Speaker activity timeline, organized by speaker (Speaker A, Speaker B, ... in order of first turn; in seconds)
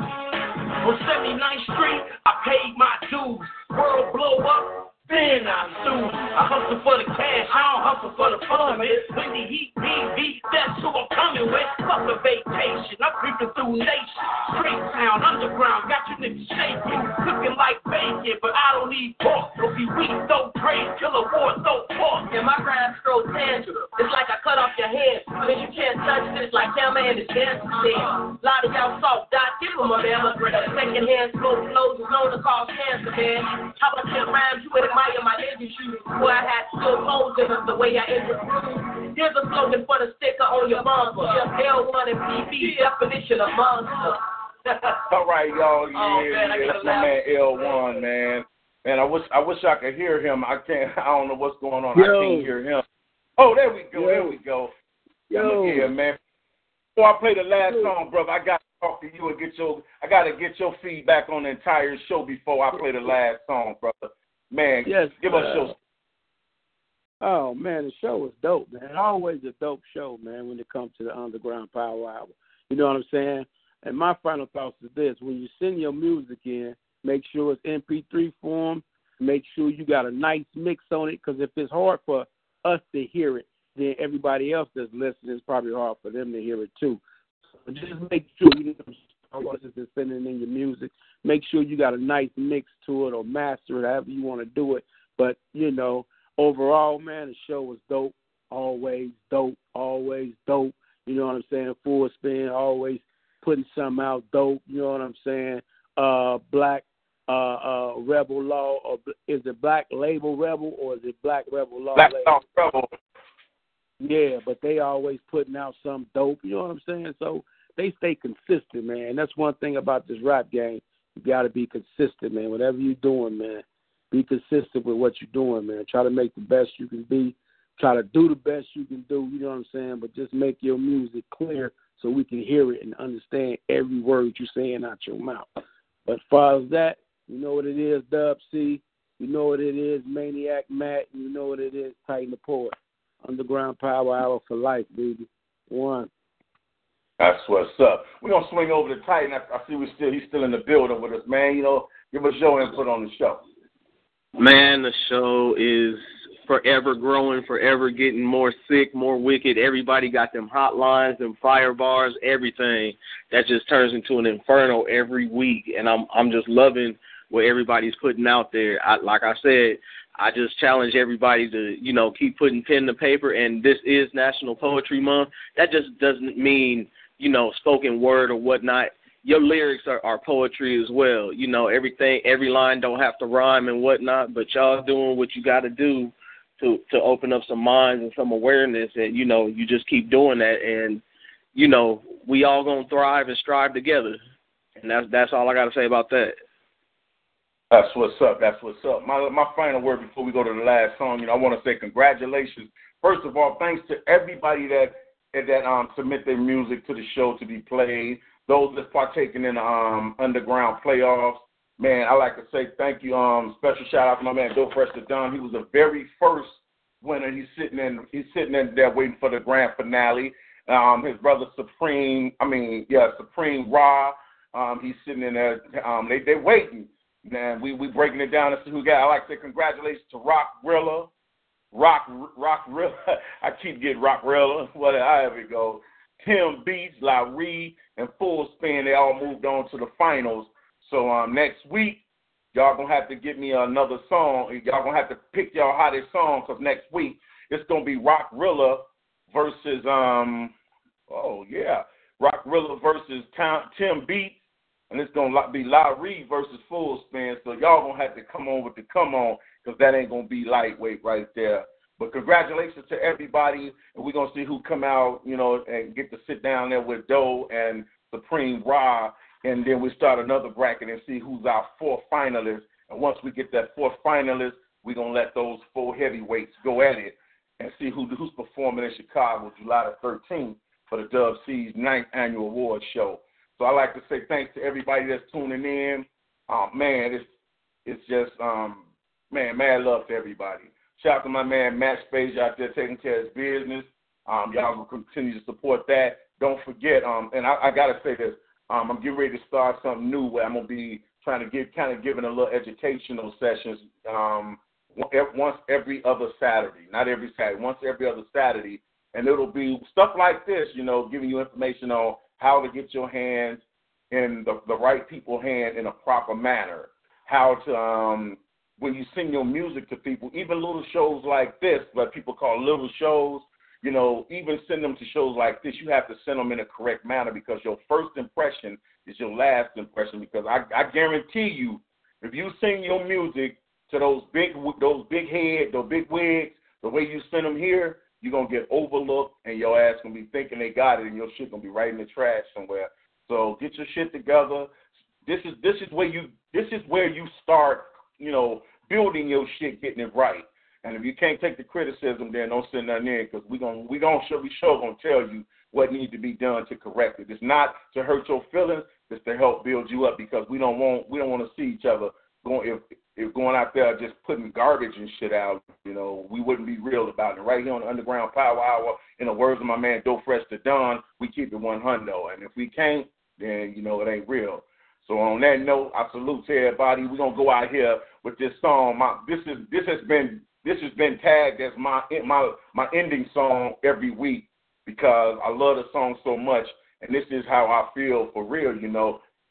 Speaker A: 0.7-22.3, 40.8-41.3, 42.6-42.8
Speaker B: 22.7-24.3, 25.4-27.6, 28.4-35.0, 36.0-42.7
Speaker C: 45.1-52.8, 53.4-54.7, 55.3-56.2, 56.9-65.7, 111.9-112.9, 147.2-153.4, 197.7-231.1, 231.7-242.0, 242.5-250.5, 251.1-254.4, 254.9-287.3, 287.9-344.7, 345.2-389.2
Speaker D: 51.9-52.5, 53.9-54.4, 55.3-55.9, 57.7-57.9, 64.8-65.7, 67.2-87.0, 87.6-112.3, 114.0-135.4, 136.1-146.1
Speaker E: 154.4-191.0, 191.5-194.2, 194.8-196.3